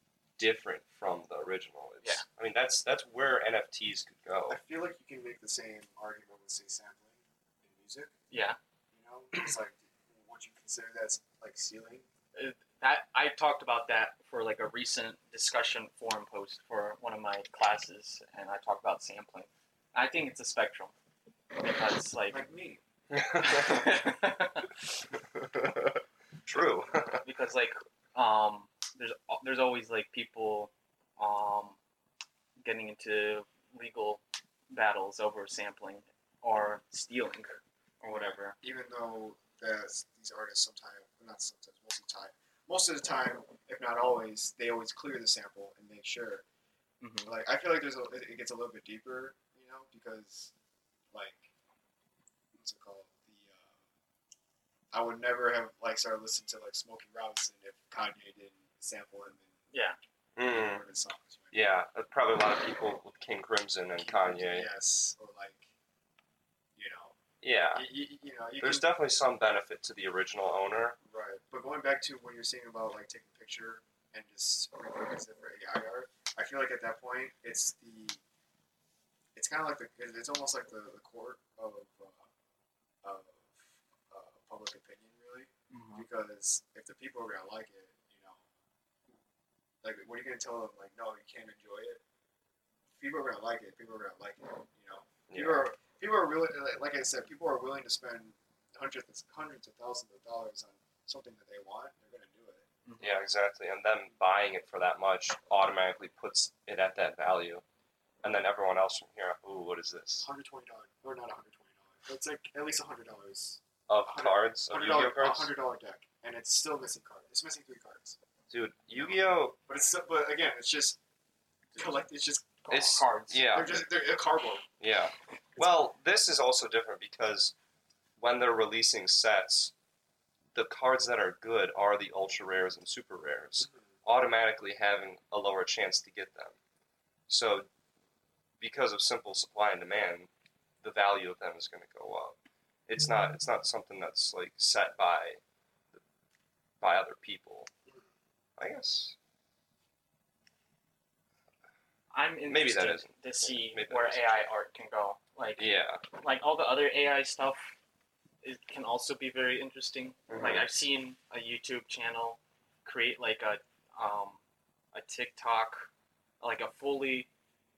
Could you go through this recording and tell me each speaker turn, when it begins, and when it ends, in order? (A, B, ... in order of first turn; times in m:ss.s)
0:00.4-0:04.6 A
0:04.5-0:08.1 B
0:08.3-0:08.6 C
0:08.9-0:12.0 B
0:12.3-0:20.9 C
0:21.6-0:22.4 C
0:22.3-0:22.8 B
0:23.1-0:24.0 A
0:23.4-0:24.7 C
0:25.1-0:27.2 A
0:27.2-0:31.8 C
0:32.6-0:38.6 C
0:38.1-0:46.4 B
0:47.0-0:47.3 C
0:47.2-0:50.5 B
0:51.1-0:51.5 B
0:52.6-0:53.7 B
0:54.9-0:59.5 B
0:59.7-1:00.0 C
1:00.4-1:00.8 A
1:00.4-1:01.7 B
1:01.5-1:04.7 A
1:04.0-1:05.6 B
1:06.8-1:07.1 B
1:07.4-1:07.8 A
1:07.7-1:08.9 B
1:08.6-1:11.0 A
1:11.1-1:18.2 B
1:19.3-1:22.2 B
1:23.0-1:28.4 B
1:25.7-1:26.0 C
1:29.8-1:32.0 B
1:33.0-1:42.7 B
1:35.3-1:35.6 A
1:42.8-1:43.2 C
1:43.0-1:47.6 A
1:48.2-1:50.3 A
1:50.2-1:58.2 B
1:53.9-1:55.5 A
1:58.5-1:59.6 A
1:58.9-2:01.0 B
2:01.7-2:04.7 B
2:02.7-2:03.8 A
2:02.7-2:03.4 C
2:04.8-2:07.5 A
2:08.2-2:09.7 A
2:10.5-2:16.6 A
2:17.3-2:17.7 A
2:18.6-2:20.3 A
2:20.8-2:22.4 A
2:22.9-2:25.4 A
2:26.8-2:27.7 A
2:28.6-2:29.2 A
2:32.1-2:37.8 C
2:32.5-2:34.4 A
2:35.6-2:36.0 A
2:38.4-2:44.4 C
2:40.3-2:40.7 A
2:44.9-2:45.9 C
2:46.4-2:47.3 C